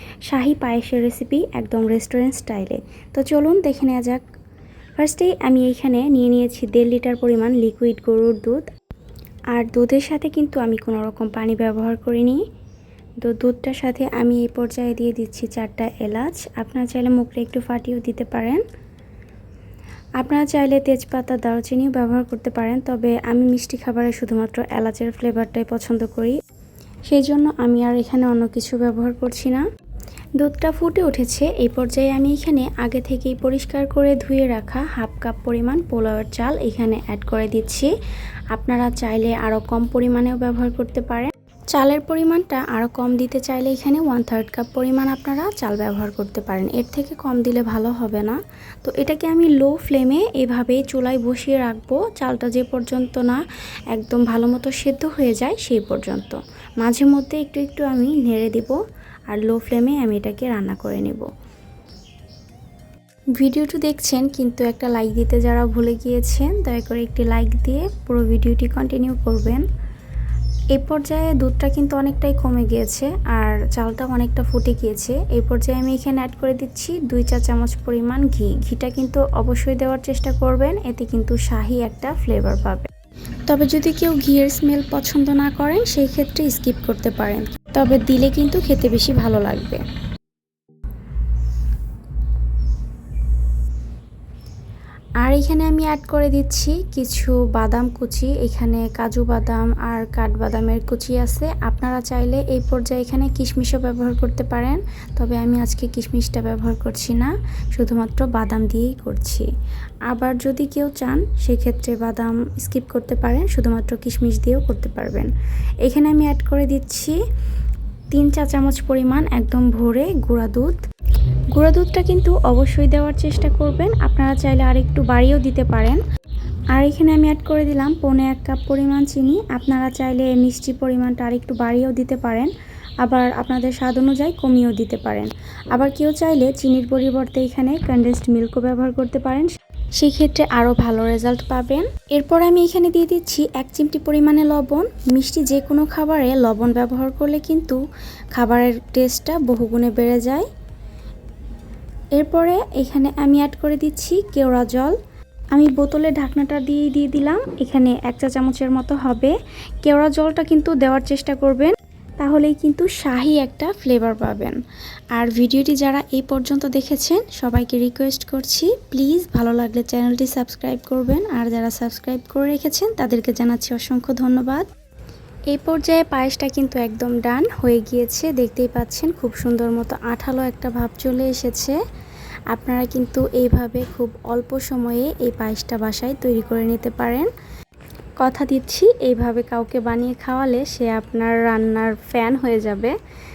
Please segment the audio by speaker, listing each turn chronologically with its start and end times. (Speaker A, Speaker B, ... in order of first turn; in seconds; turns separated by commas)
Speaker A: 0.3-4.2, Speaker A: 5.0-8.7, Speaker A: 9.5-12.4, Speaker A: 13.2-18.6, Speaker A: 20.2-26.4, Speaker A: 27.1-29.6, Speaker A: 30.4-37.9, Speaker A: 38.5-53.4, Speaker A: 53.9-61.3, Speaker A: 63.4-69.6, Speaker A: 70.7-82.9, Speaker A: 83.5-89.8, Speaker A: 95.2-109.5, Speaker A: 110.1-115.3, Speaker A: 115.8-117.2, Speaker A: 118.1-120.8, Speaker A: 121.5-126.0, Speaker A: 126.7-147.8, Speaker A: 148.3-150.5, Speaker A: 152.2-155.0, Speaker A: 155.5-164.6, Speaker A: 165.1-174.7, Speaker A: 175.5-181.8, Speaker A: 182.5-187.3, Speaker A: 188.2-193.0